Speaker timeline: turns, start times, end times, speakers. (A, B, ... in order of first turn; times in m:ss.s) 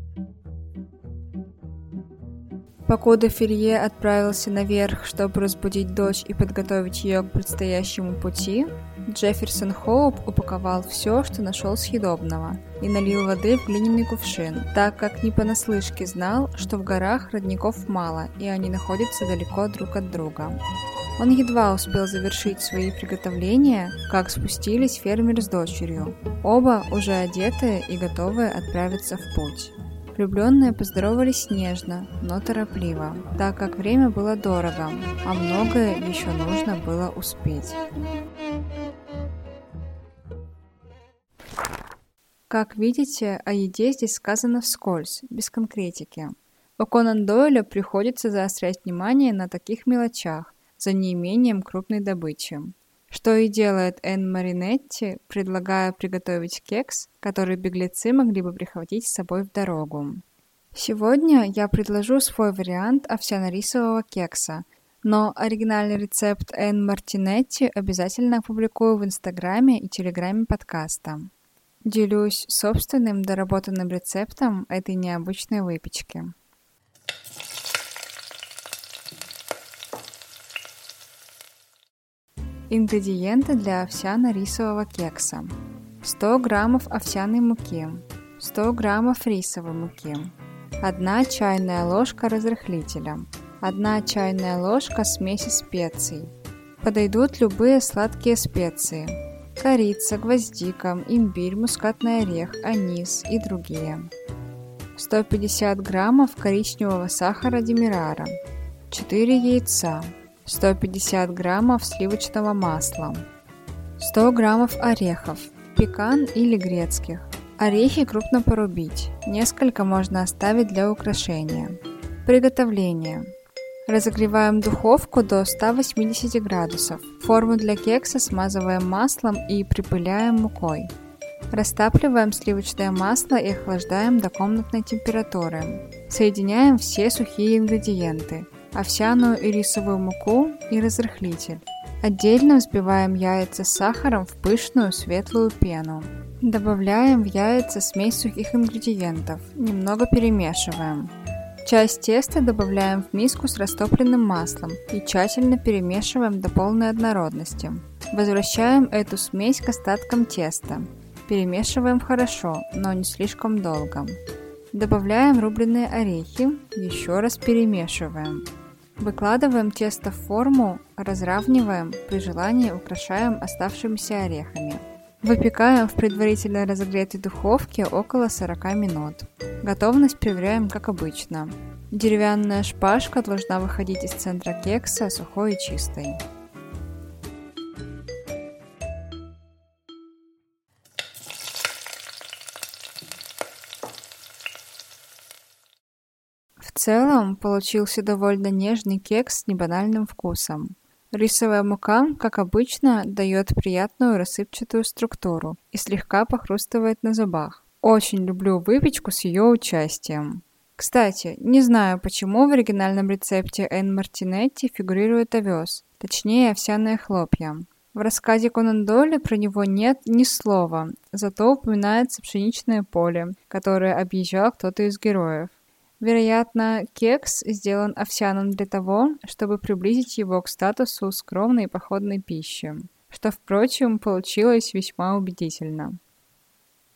0:02.9-0:20.6 A
0:21.2-0:37.8 A
0:42.5-1:00.2 A
1:00.7-1:11.3 A
1:11.8-1:16.3 A
1:22.7-1:44.1 A
1:45.0-1:48.4 A
1:48.9-1:53.2 A
1:54.0-2:03.3 A
2:03.9-2:10.9 A
2:11.5-2:31.1 A
2:31.6-2:44.2 A
2:44.7-2:48.5 A
2:49.0-3:06.2 A
3:16.6-3:56.0 A